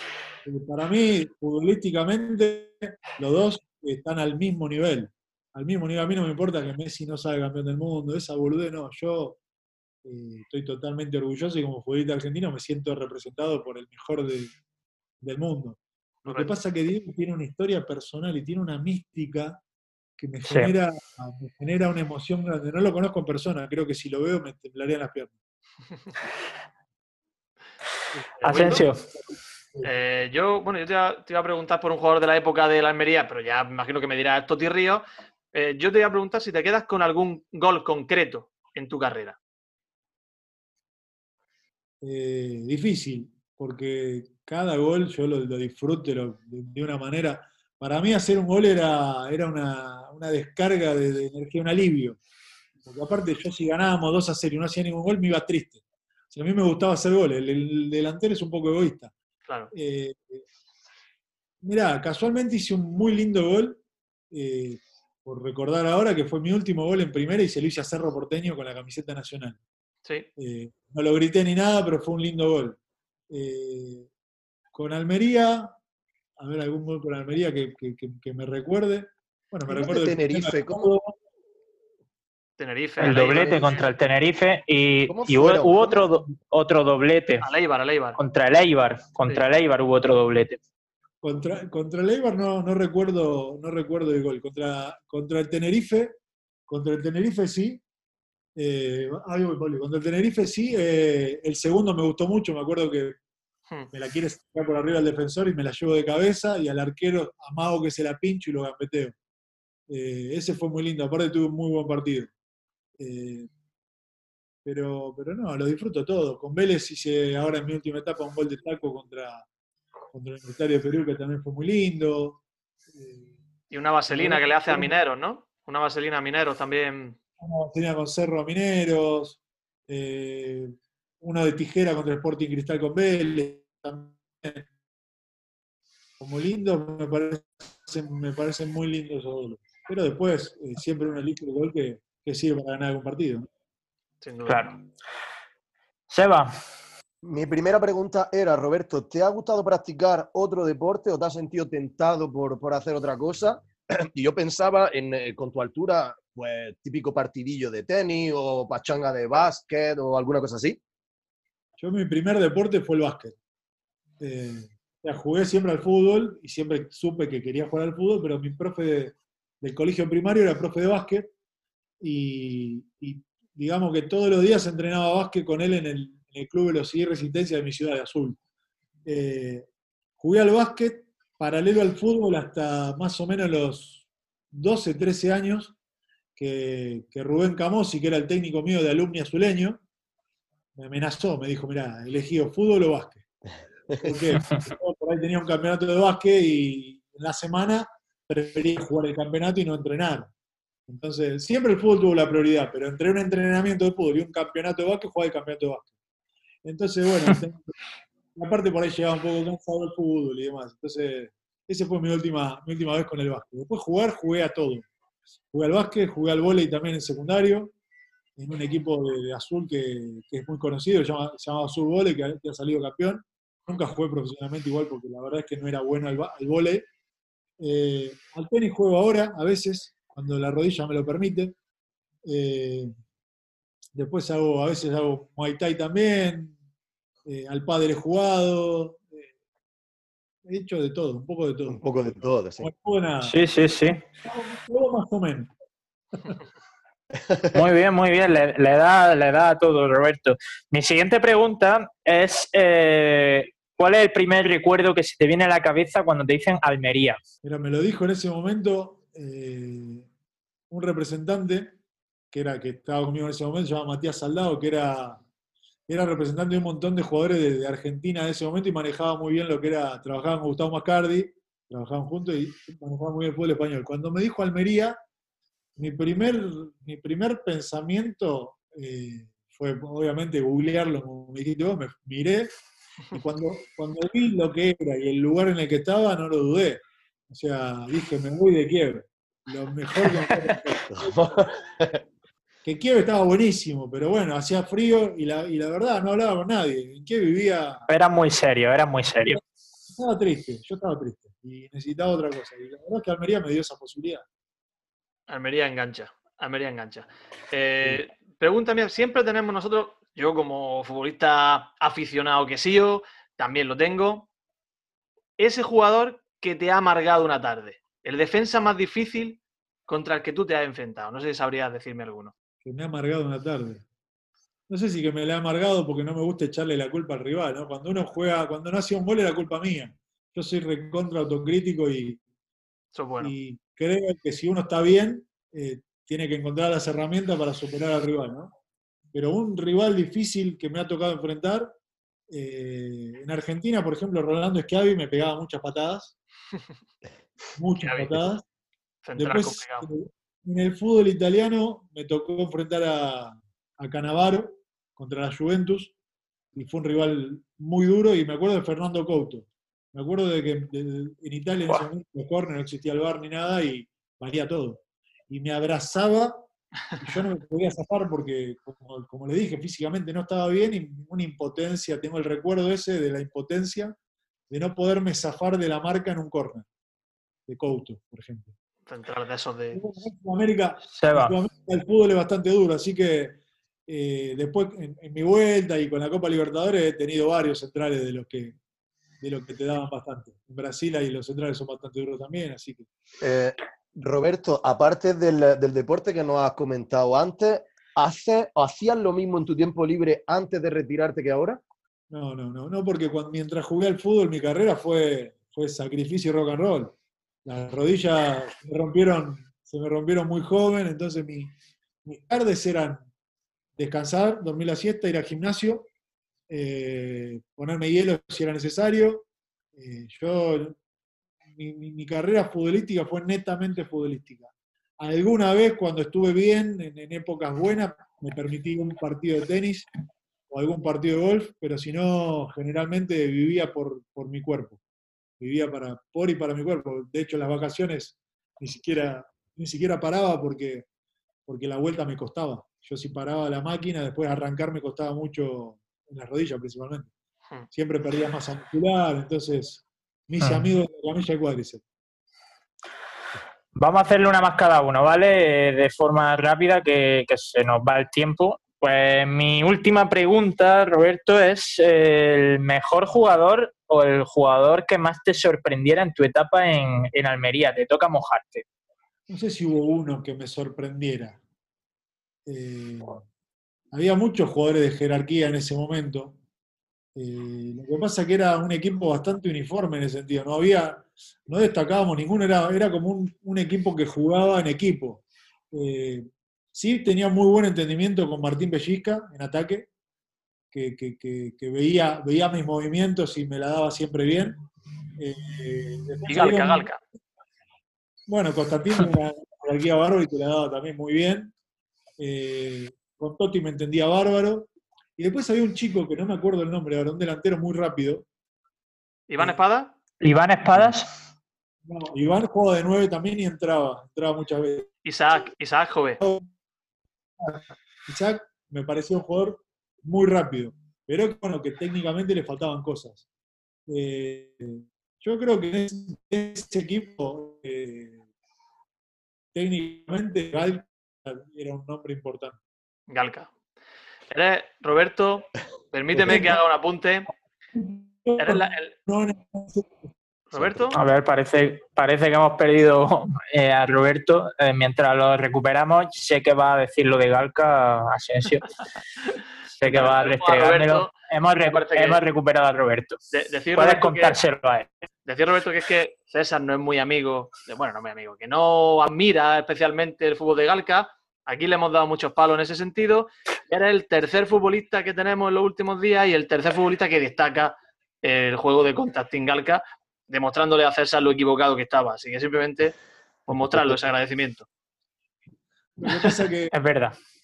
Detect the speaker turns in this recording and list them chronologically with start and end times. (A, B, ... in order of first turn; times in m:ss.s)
0:00.4-0:09.4 A
0:10.0-0:14.5 A
0:15.2-0:19.6 A
0:16.2-0:16.5 B
0:20.2-0:25.3 A
0:20.4-0:20.7 C
0:28.1-0:29.9 A
0:28.4-0:29.0 C
0:28.4-0:28.8 B
0:29.8-0:39.4 B
0:42.0-0:52.2 A
0:52.8-0:59.1 A
0:59.7-1:00.4 A
1:01.6-1:09.6 A
1:10.4-1:12.8 A
1:13.3-1:14.1 A
1:14.7-1:15.8 A
1:16.4-1:21.2 A
1:19.7-1:20.9 D
1:22.6-1:23.8 B
1:23.0-1:27.5 C
1:25.1-1:26.1 D
1:27.4-1:28.2 B
1:28.2-1:30.6 C
1:31.2-1:37.8 A
1:38.6-1:43.2 A
1:43.9-1:49.2 A
1:49.9-1:52.3 A
1:53.0-1:53.5 A
1:54.6-1:59.4 A
2:00.1-2:03.3 A
2:03.7-2:07.2 B
2:04.1-2:04.9 A
2:07.4-2:14.7 A
2:16.2-2:23.5 A
2:24.2-2:24.7 B
2:24.5-2:24.8 C
2:26.1-2:26.5 C
2:27.2-2:40.8 D
2:41.8-2:43.4 A
2:44.2-2:51.3 A
2:52.0-2:58.4 A
2:59.0-2:59.7 A
3:00.2-3:05.7 A
3:06.4-3:09.8 A
3:10.8-3:13.2 A
3:14.0-3:20.3 A
3:20.9-3:25.9 A
3:26.6-3:27.7 A
3:28.3-3:34.9 A
3:35.5-3:37.7 A
3:38.4-3:46.9 A
3:47.6-3:51.5 A
3:52.2-3:52.9 A
3:53.9-3:56.6 A
3:57.2-3:59.3 A
4:00.4-4:03.4 A
4:01.7-4:02.7 D
4:03.2-4:04.0 C
4:04.2-4:05.5 A
4:07.5-4:17.2 C
4:17.4-4:20.1 A
4:20.7-4:21.8 A
4:22.3-4:25.2 A
4:25.9-4:35.0 A
4:35.8-4:42.6 A
4:43.1-4:51.5 A
4:50.9-4:52.0 D
4:52.6-4:57.8 A
4:57.9-4:59.4 C
4:59.9-5:04.2 A
5:05.3-5:14.3 B
5:15.4-5:22.3 B
5:22.6-5:23.8 A
5:24.7-5:32.2 A
5:32.9-5:33.3 B
5:33.2-5:38.5 A
5:39.1-5:41.7 A
5:42.3-5:46.1 A
5:47.6-5:48.4 A
5:47.8-5:48.2 B
5:49.0-5:49.9 B
5:49.2-5:55.9 A
5:56.5-6:06.5 A
6:07.0-6:13.9 A
6:14.5-6:16.6 A
6:17.5-6:18.5 A
6:18.9-6:19.8 B
6:19.7-6:28.6 A
6:20.9-6:21.4 C
6:29.2-6:32.9 A
6:33.2-6:41.6 D
6:42.1-6:53.1 A
6:53.8-6:55.9 A
6:56.5-7:00.8 A
7:01.5-7:09.9 A
7:10.5-7:14.8 A
7:15.4-7:20.8 A
7:21.4-7:27.1 A
7:27.7-7:31.8 A
7:30.4-7:30.7 C
7:33.7-7:48.6 C
7:49.3-7:51.4 A
7:52.4-7:53.2 A
7:53.9-7:56.4 A
7:57.1-8:09.9 A
8:10.7-8:14.6 A
8:15.2-8:16.9 A
8:16.3-8:17.0 B
8:18.3-8:21.5 A
8:22.2-8:28.2 A
8:29.3-8:29.9 B
8:30.2-8:31.1 C
8:31.8-8:34.9 A
8:35.0-8:36.2 B
8:36.2-8:36.5 A
8:37.4-8:43.2 A
8:43.9-8:48.2 A
8:49.5-8:52.6 A
8:53.1-8:53.5 B
8:54.3-8:57.3 B
8:56.2-8:56.6 A
8:57.7-9:00.1 A
8:58.4-8:58.9 B
9:00.5-9:01.0 B
9:00.5-9:00.8 D
9:00.9-9:08.6 C
9:09.8-9:13.2 C
9:09.8-9:11.1 B
9:11.6-9:12.2 B
9:13.3-9:14.4 B
9:13.7-9:14.9 C
9:15.2-9:33.0 B
9:33.5-9:34.6 B
9:33.5-9:33.9 D
9:36.0-9:36.7 A
9:36.1-9:36.4 B
9:36.7-9:37.2 C